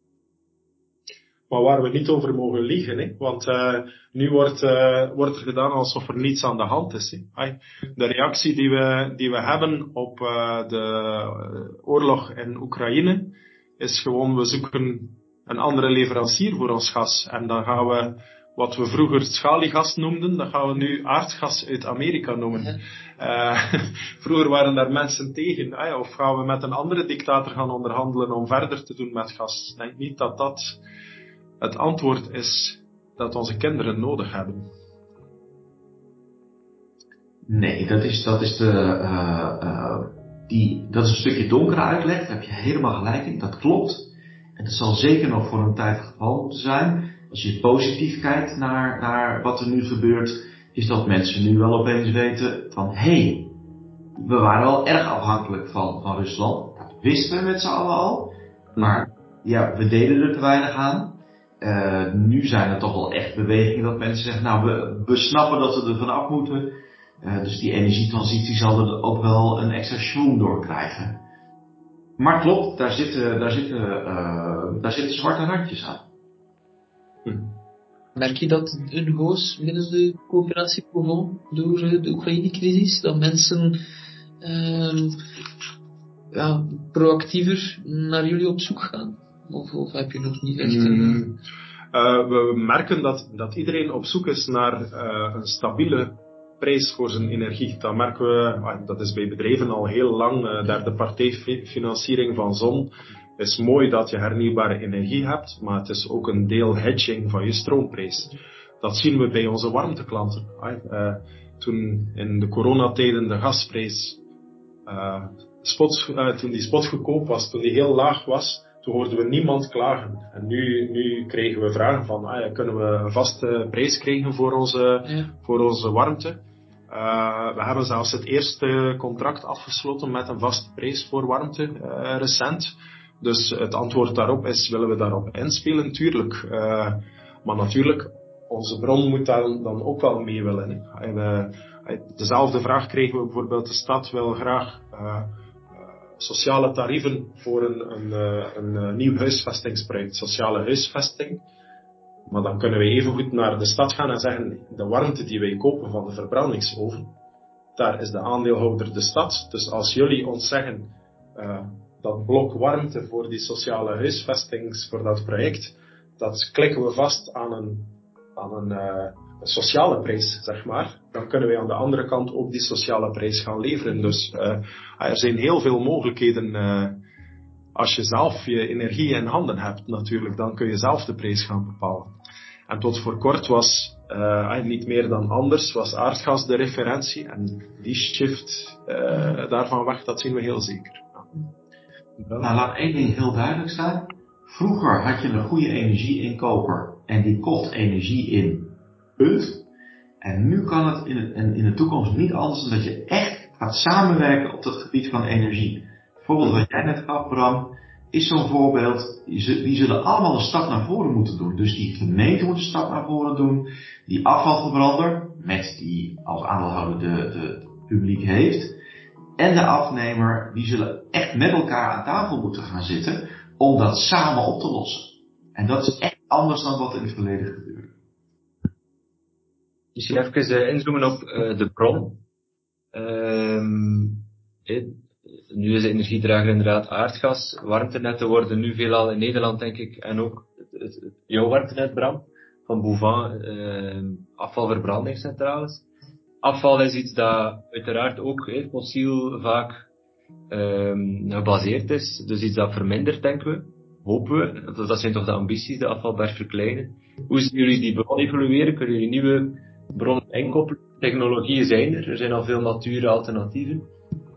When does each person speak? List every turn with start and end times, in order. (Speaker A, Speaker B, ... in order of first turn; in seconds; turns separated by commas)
Speaker A: 1.5-30.8, Speaker B: 22.5-22.8, Speaker A: 31.6-34.7, Speaker C: 37.5-53.5, Speaker C: 54.1-71.2, Speaker A: 58.8-59.0, Speaker C: 72.2-76.0, Speaker A: 77.2-77.5, Speaker B: 78.1-83.8, Speaker B: 84.4-85.2, Speaker B: 86.3-91.2, Speaker A: 90.6-91.4, Speaker A: 91.9-114.2, Speaker A: 114.8-145.3, Speaker B: 125.0-125.3, Speaker A: 146.2-151.4, Speaker A: 152.3-157.1, Speaker A: 157.8-177.0, Speaker A: 177.7-182.2, Speaker A: 182.7-191.3, Speaker A: 192.2-192.5, Speaker C: 192.4-199.6, Speaker C: 200.2-218.8, Speaker C: 219.4-227.9, Speaker D: 229.9-232.2, Speaker D: 232.9-245.8, Speaker D: 246.4-249.9, Speaker D: 250.5-263.9